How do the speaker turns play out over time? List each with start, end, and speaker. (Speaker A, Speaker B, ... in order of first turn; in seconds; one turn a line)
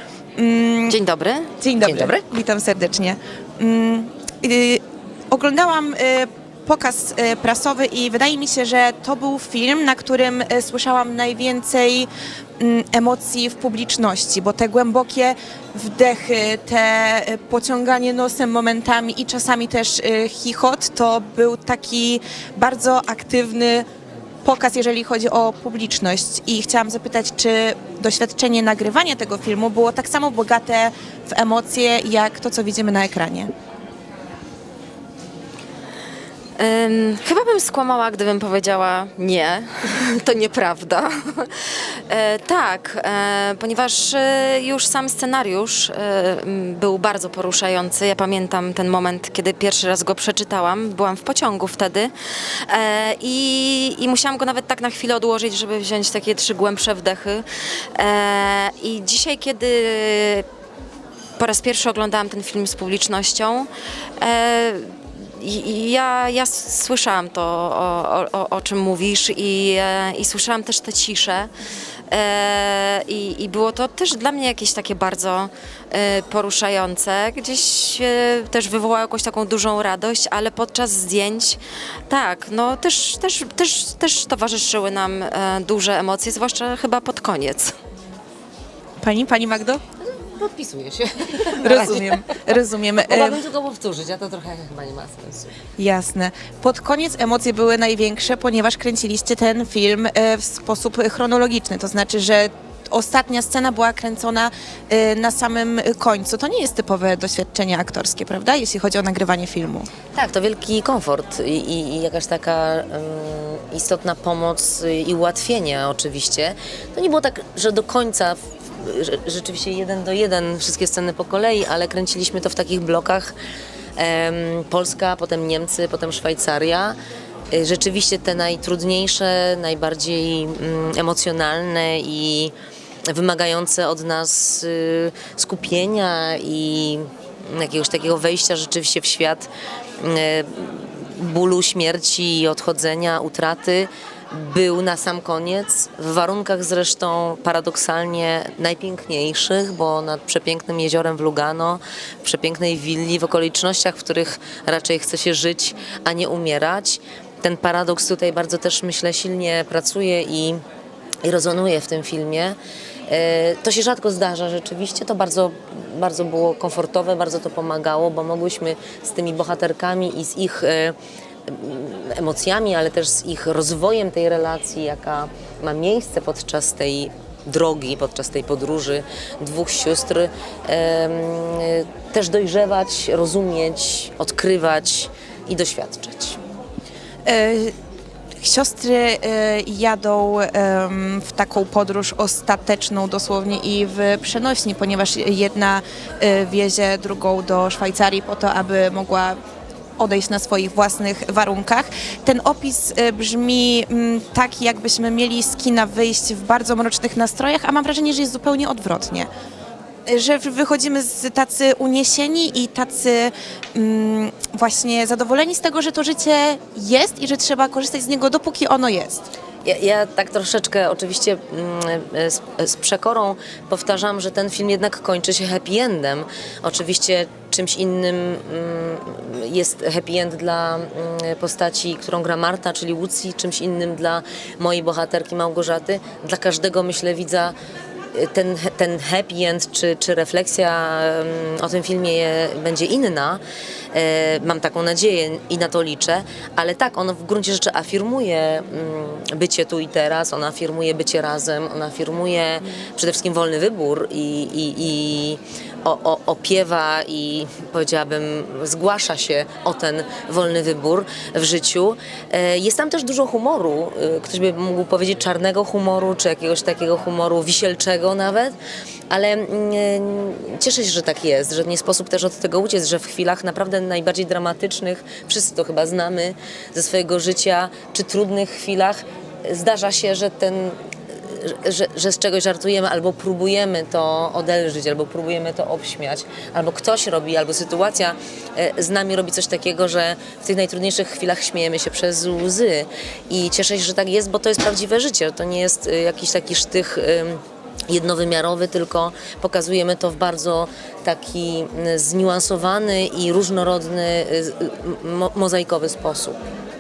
Speaker A: 0.4-1.0
Speaker B: 0.9-1.5
Speaker A: 1.6-12.1
Speaker C: 1.8-2.2
Speaker A: 12.6-23.9
Speaker A: 24.4-33.5
Speaker B: 36.6-52.1
Speaker B: 52.7-57.4
Speaker B: 58.0-60.5
Speaker B: 61.4-71.5
Speaker B: 72.1-81.6
Speaker B: 82.1-87.7
Speaker A: 89.0-89.8
Speaker C: 90.0-92.2
Speaker A: 91.4-93.4
Speaker C: 93.0-95.5
Speaker A: 95.8-109.9
Speaker C: 110.2-123.3
Speaker C: 124.0-127.0
Speaker C: 127.5-132.5
Speaker C: 133.1-160.6
Speaker C: 161.2-162.6
Speaker C: 163.1-170.9
Speaker C: 171.5-186.4
Speaker A: 187.2-187.7
Speaker A: 188.4-199.4
Speaker A: 200.0-209.3
Speaker A: 210.1-219.2
Speaker C: 219.6-237.6
Speaker C: 238.1-243.4
Speaker C: 243.9-268.6
Speaker C: 269.1-306.4